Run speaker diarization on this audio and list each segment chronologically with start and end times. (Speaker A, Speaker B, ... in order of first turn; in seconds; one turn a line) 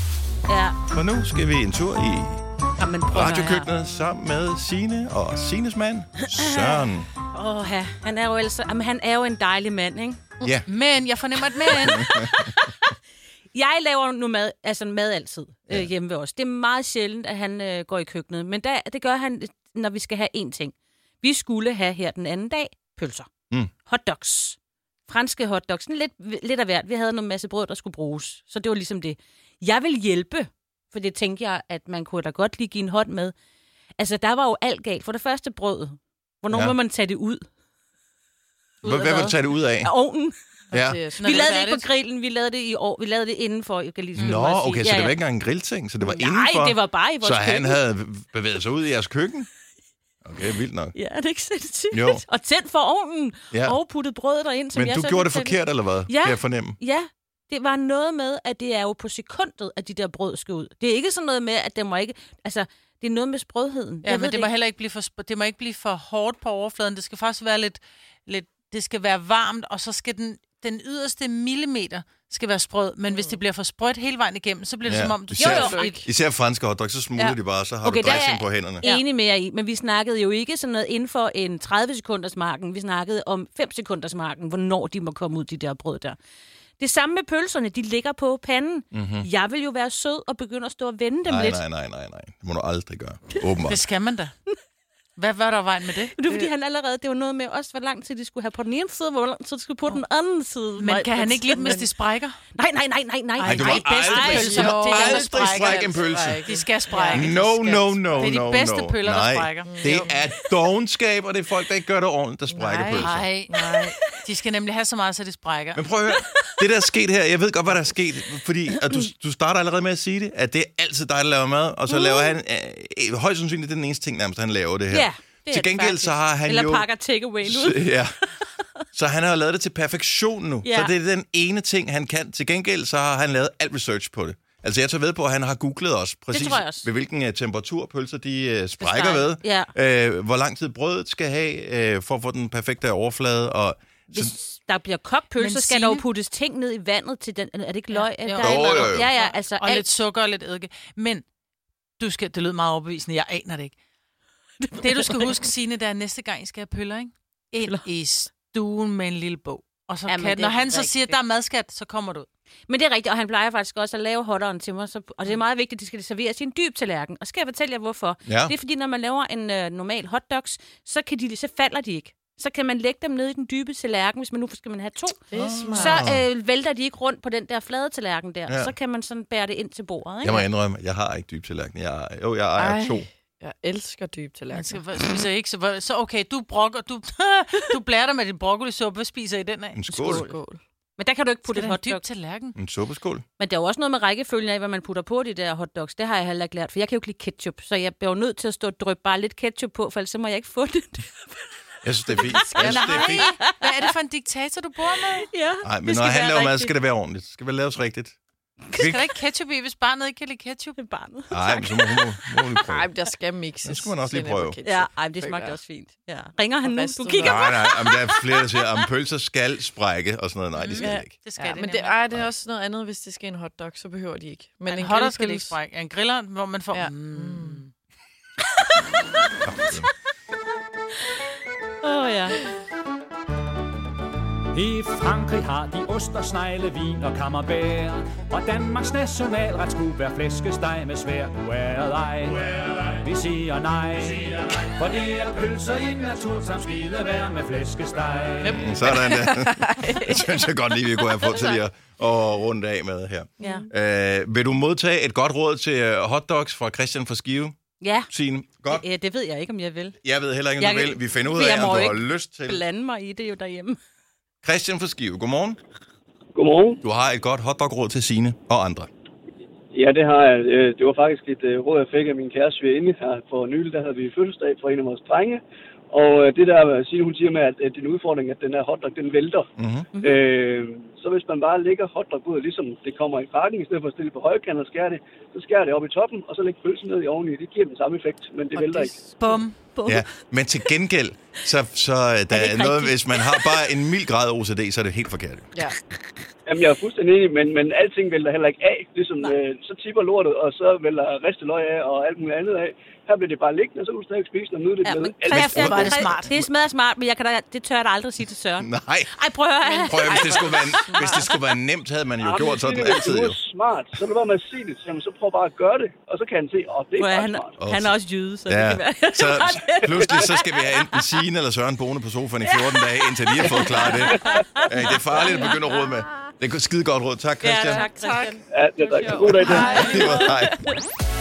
Speaker A: 0.5-0.8
Speaker B: 0.9-2.4
Speaker A: 2.8-3.7
Speaker B: 3.1-7.1
Speaker A: 6.3-10.3
Speaker B: 10.4-10.7
Speaker C: 10.7-12.1
Speaker A: 11.7-12.9
Speaker B: 11.7-12.5
Speaker A: 13.5-23.3
Speaker A: 23.8-33.3
Speaker A: 34.0-37.4
Speaker B: 36.5-36.8
Speaker A: 38.8-40.3
Speaker B: 38.8-39.9
Speaker B: 40.7-41.0
Speaker D: 40.7-41.3
Speaker A: 41.2-45.2
Speaker C: 41.2-41.9
Speaker B: 44.2-49.5
Speaker A: 46.0-47.8
Speaker B: 50.2-51.0
Speaker A: 50.9-64.5
Speaker B: 51.9-52.2
Speaker B: 53.5-53.8
Speaker B: 54.7-56.8
Speaker C: 64.0-76.0
Speaker D: 73.1-73.4
Speaker B: 74.8-78.8
Speaker A: 75.4-75.8
Speaker D: 75.7-76.0
Speaker A: 77.8-86.2
Speaker A: 86.8-91.6
Speaker B: 88.9-89.3
Speaker B: 91.3-93.8
Speaker C: 93.7-94.3
Speaker C: 95.2-96.1
Speaker A: 96.2-101.8
Speaker C: 100.8-102.4
Speaker D: 101.6-101.9
Speaker A: 102.5-105.2
Speaker C: 103.4-110.1
Speaker B: 103.4-106.4
Speaker D: 104.4-107.3
Speaker B: 107.1-113.2
Speaker D: 109.6-110.3
Speaker D: 112.5-114.0
Speaker C: 112.8-115.8
Speaker A: 113.6-113.9
Speaker B: 115.7-126.9
Speaker A: 116.1-116.5
Speaker A: 121.9-122.3
Speaker A: 124.9-128.0
Speaker B: 127.4-128.2
Speaker B: 128.9-144.3
Speaker A: 130.6-130.9
Speaker A: 136.3-136.9
Speaker A: 138.8-139.7
Speaker A: 144.1-149.9
Speaker C: 145.4-146.0
Speaker C: 147.9-151.2
Speaker B: 148.4-149.1
Speaker C: 152.0-153.8
Speaker A: 154.6-155.3
Speaker C: 154.8-162.3
Speaker A: 160.1-161.2
Speaker A: 162.7-180.5
Speaker B: 168.2-168.5
Speaker D: 175.3-176.1
Speaker B: 175.3-176.2
Speaker B: 178.5-178.8
Speaker B: 180.2-183.1
Speaker D: 182.6-184.8
Speaker C: 184.5-189.9
Speaker B: 189.8-190.3
Speaker D: 189.9-190.6
Speaker A: 191.0-192.0
Speaker C: 191.5-192.6
Speaker B: 192.6-193.2
Speaker A: 193.4-201.4
Speaker B: 201.8-203.4
Speaker A: 202.1-203.6
Speaker C: 202.5-205.3
Speaker A: 205.2-206.7
Speaker B: 205.6-208.2
Speaker B: 208.7-209.0
Speaker C: 208.8-210.8
Speaker A: 210.8-212.0
Speaker B: 211.3-212.9
Speaker D: 212.7-215.6
Speaker B: 213.6-214.6
Speaker A: 214.6-218.2
Speaker D: 216.6-217.8
Speaker B: 217.2-221.2
Speaker C: 220.6-222.0
Speaker A: 220.8-221.1
Speaker D: 221.4-225.6
Speaker C: 224.7-227.7
Speaker D: 226.7-227.6
Speaker B: 229.4-229.9
Speaker A: 231.8-232.4
Speaker E: 234.5-248.8
Speaker B: 248.5-257.6
Speaker D: 248.8-250.2
Speaker A: 253.4-253.7
Speaker A: 257.8-258.1
Speaker B: 258.1-258.9
Speaker A: 258.7-260.0
Speaker B: 260.0-262.6
Speaker A: 260.6-263.8
Speaker B: 264.4-265.6
Speaker F: 266.3-266.8
Speaker B: 266.8-268.9
Speaker F: 269.7-279.4
Speaker B: 279.6-279.9
Speaker F: 280.0-289.0
Speaker C: 289.2-289.6
Speaker A: 289.8-290.1
Speaker B: 289.9-295.5
Speaker A: 292.3-293.6
Speaker F: 296.4-305.9
Speaker A: 304.8-311.3
Speaker C: 305.3-306.3
Speaker B: 305.4-306.0
Speaker B: 308.6-309.1
Speaker D: 309.6-311.3
Speaker B: 309.9-313.4
Speaker F: 312.2-317.6
Speaker A: 317.0-321.0
Speaker B: 317.6-317.9
Speaker B: 318.4-327.9
Speaker A: 322.7-325.6
Speaker F: 323.4-324.4
Speaker A: 327.4-328.4
Speaker D: 328.0-328.4
Speaker F: 328.5-330.2
Speaker D: 329.0-330.0
Speaker A: 329.4-330.7
Speaker B: 329.4-330.6